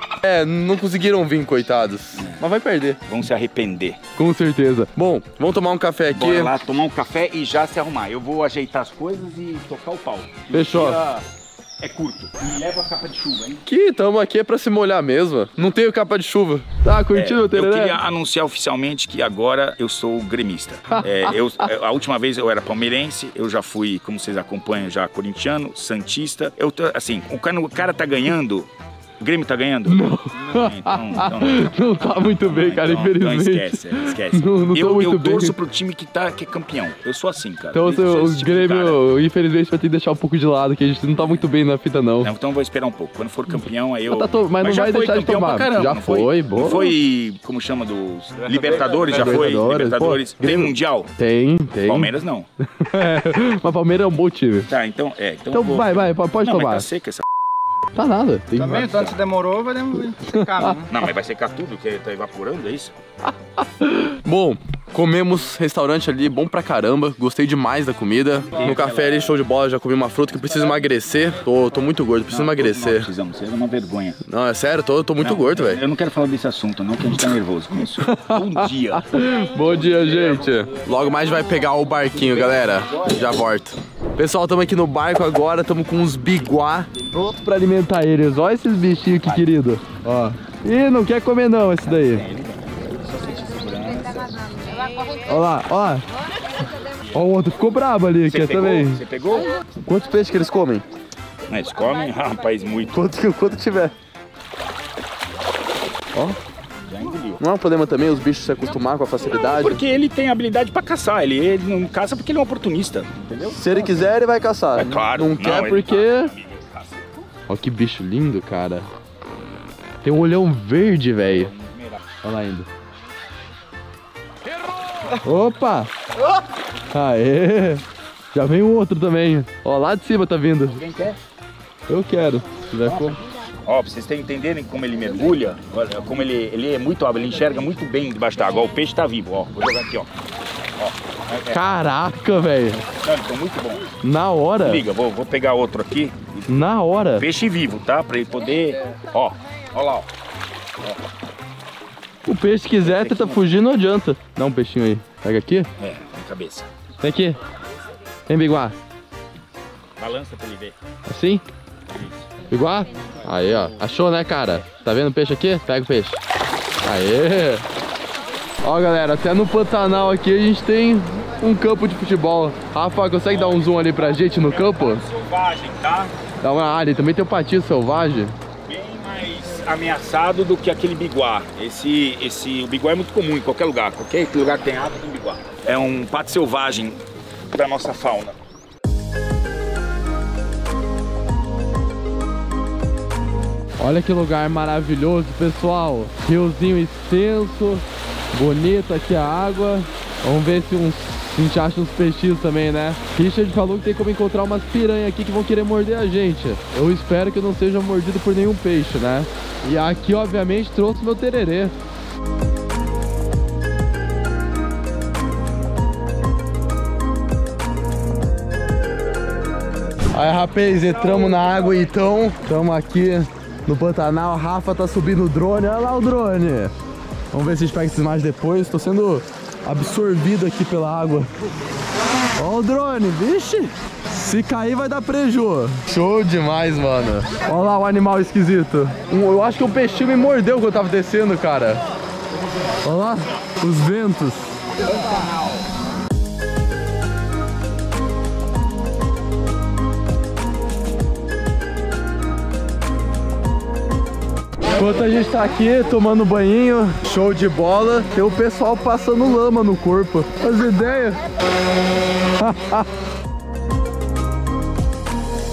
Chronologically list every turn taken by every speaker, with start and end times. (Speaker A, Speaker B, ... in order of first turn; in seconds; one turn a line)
Speaker A: 0.2-3.0
Speaker B: 2.1-2.4
Speaker B: 3.1-4.0
Speaker A: 4.2-6.5
Speaker B: 6.2-11.2
Speaker A: 10.5-11.0
Speaker B: 11.8-13.6
Speaker A: 13.7-18.0
Speaker B: 17.1-39.0
Speaker A: 29.9-35.6
Speaker A: 37.7-42.3
Speaker B: 41.2-41.5
Speaker B: 42.2-51.1
Speaker A: 44.1-46.8
Speaker C: 48.5-49.3
Speaker A: 49.0-52.2
Speaker B: 51.8-52.5
Speaker A: 52.8-54.7
Speaker B: 54.7-57.2
Speaker A: 55.5-56.9
Speaker A: 58.0-59.1
Speaker C: 58.6-60.9
Speaker A: 60.3-60.8
Speaker B: 60.9-63.0
Speaker A: 63.2-73.1
Speaker B: 68.5-69.4
Speaker B: 72.3-74.2
Speaker A: 74.3-75.8
Speaker B: 75.2-83.4
Speaker A: 78.0-92.2
Speaker B: 91.9-94.5
Speaker A: 95.3-96.0
Speaker A: 97.1-99.0
Speaker B: 98.2-99.5
Speaker A: 99.8-100.8
Speaker B: 101.5-103.0
Speaker A: 102.9-103.9
Speaker B: 106.9-107.4
Speaker A: 107.4-109.8
Speaker B: 109.4-114.0
Speaker A: 113.5-116.3
Speaker B: 114.8-117.1
Speaker A: 117.5-118.9
Speaker A: 120.0-121.5
Speaker B: 121.2-122.0
Speaker A: 122.2-122.7
Speaker A: 125.2-125.9
Speaker A: 126.9-130.8
Speaker B: 130.7-131.2
Speaker A: 131.9-133.2
Speaker B: 132.9-140.1
Speaker B: 140.8-141.6
Speaker A: 141.5-142.8
Speaker B: 143.0-143.9
Speaker A: 144.0-144.8
Speaker B: 144.6-150.1
Speaker A: 146.5-147.3
Speaker A: 152.3-155.7
Speaker B: 152.8-153.5
Speaker B: 155.8-156.7
Speaker A: 157.0-157.4
Speaker A: 158.3-158.8
Speaker B: 160.0-160.8
Speaker A: 161.1-161.4
Speaker B: 161.9-162.2
Speaker A: 162.5-166.2
Speaker A: 166.8-167.6
Speaker A: 168.6-175.0
Speaker B: 173.3-176.1
Speaker A: 176.4-178.3
Speaker B: 178.7-188.4
Speaker A: 193.8-211.7
Speaker A: 220.1-226.7
Speaker B: 220.5-221.8
Speaker A: 227.3-231.3
Speaker A: 232.4-241.8
Speaker A: 242.8-244.6
Speaker A: 254.7-261.2
Speaker A: 262.4-262.9